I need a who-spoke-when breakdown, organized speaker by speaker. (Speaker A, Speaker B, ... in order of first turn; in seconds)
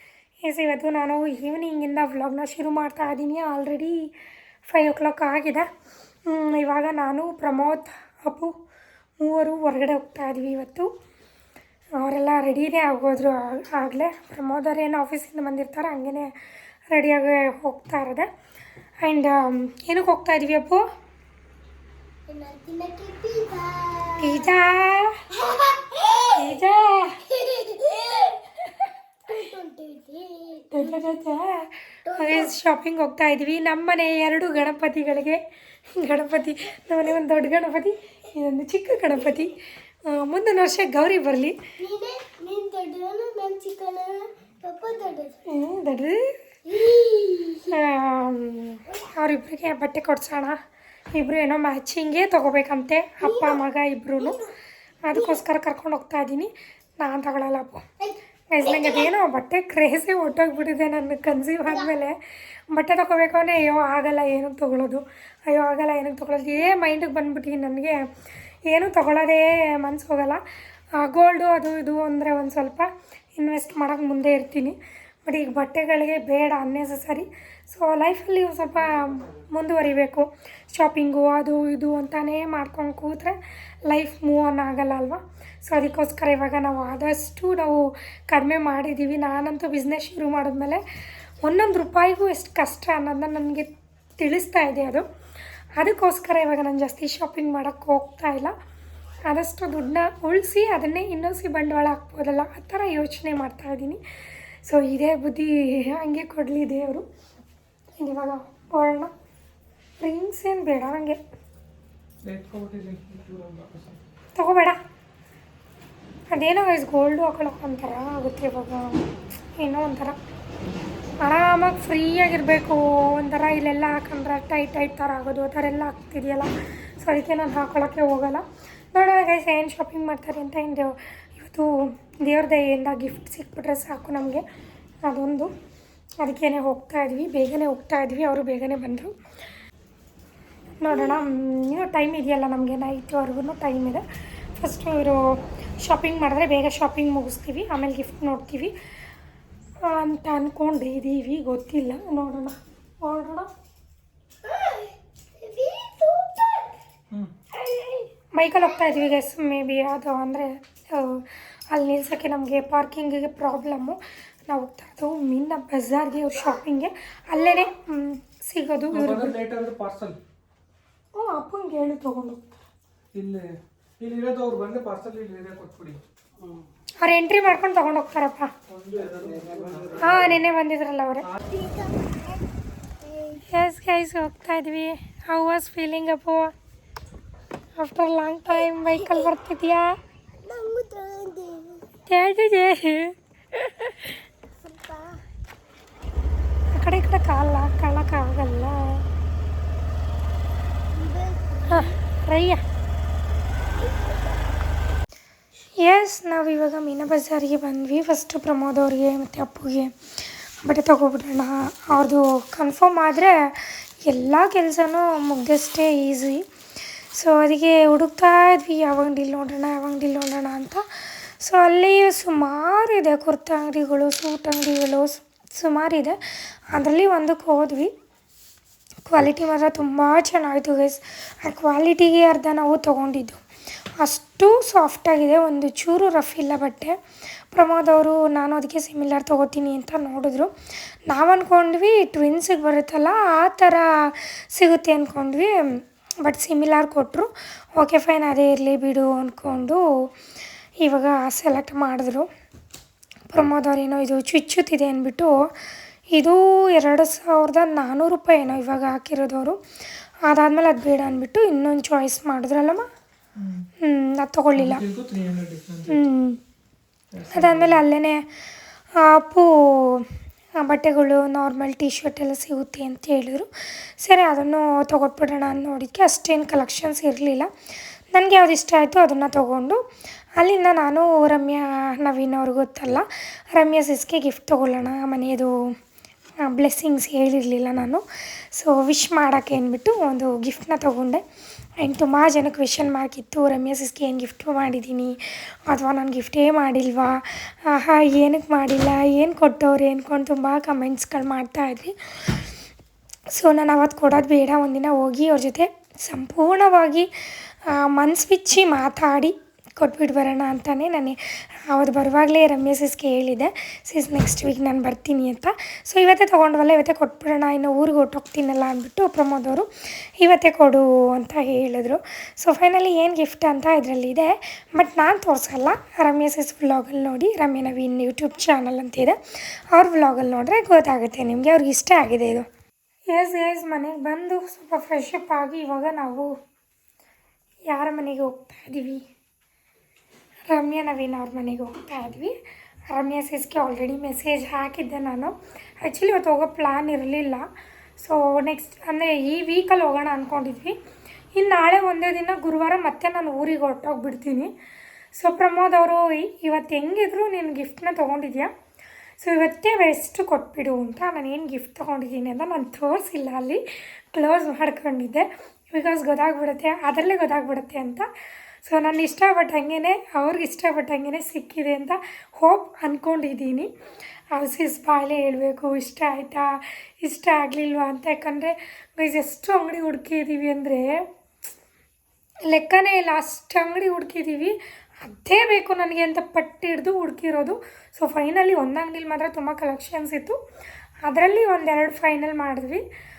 Speaker A: 0.4-4.1, 4.7-5.7, 6.2-8.5, 9.2-10.9, 12.0-16.3, 16.9-18.3, 19.0-20.8, 24.2-25.2, 26.3-27.2, 30.7-35.4, 35.9-41.5, 45.5-46.3, 47.7-50.6, 51.1-54.4, 55.0-57.8, 58.5-62.1, 62.7-68.0, 68.7-70.4, 71.0-90.8, 91.4-95.1, 95.8-98.5, 99.2-104.0, 104.6-107.1, 108.0-109.1, 110.0-111.2, 114.3-114.8, 116.3-120.2, 121.2-134.4, 135.0-135.5, 136.2-139.1, 140.8-144.0, 144.6-148.7, 149.8-153.5, 158.3-169.3, 171.1-172.4, 177.0-178.5, 180.0-181.3, 183.5-186.5, 187.8-189.9, 192.1-194.1, 196.7-199.0, 201.7-202.6, 205.8-216.4, 217.1-226.2, 226.7-227.9, 229.1-233.4, 234.0-237.0, 237.5-240.5, 241.1-249.8, 250.8-252.3, 253.3-255.3, 256.1-259.6, 260.2-262.9, 263.8-264.8, 265.9-266.4, 267.3-268.2, 269.0-270.1, 270.6-273.5, 274.0-277.5, 278.1-279.8, 280.4-285.5, 286.4-291.2, 291.8-302.4, 303.4-307.1, 307.7-311.2, 311.7-332.5, 333.1-336.3, 337.7-339.0, 340.5-342.4, 342.9-350.8, 351.3-354.5, 355.1-358.5, 359.2-363.6, 364.1-368.1, 368.6-373.7, 374.3-381.0, 382.5-390.4, 391.0-392.8
Speaker B: 22.3-24.4, 25.3-26.5, 27.3-28.4, 29.3-31.1, 32.0-32.5, 41.8-45.4, 46.7-47.8, 53.2-53.6, 54.2-54.5, 55.1-55.4, 58.0-59.1, 154.4-156.8, 157.6-158.0, 181.5-182.4, 183.0-183.4, 188.5-189.3, 190.4-191.9, 194.6-195.2, 200.9-202.0, 203.8-204.5
Speaker C: 112.2-114.0, 168.9-170.2, 173.1-173.4, 174.0-176.0, 178.7-180.4, 263.4-263.7, 264.6-266.0, 267.1-267.8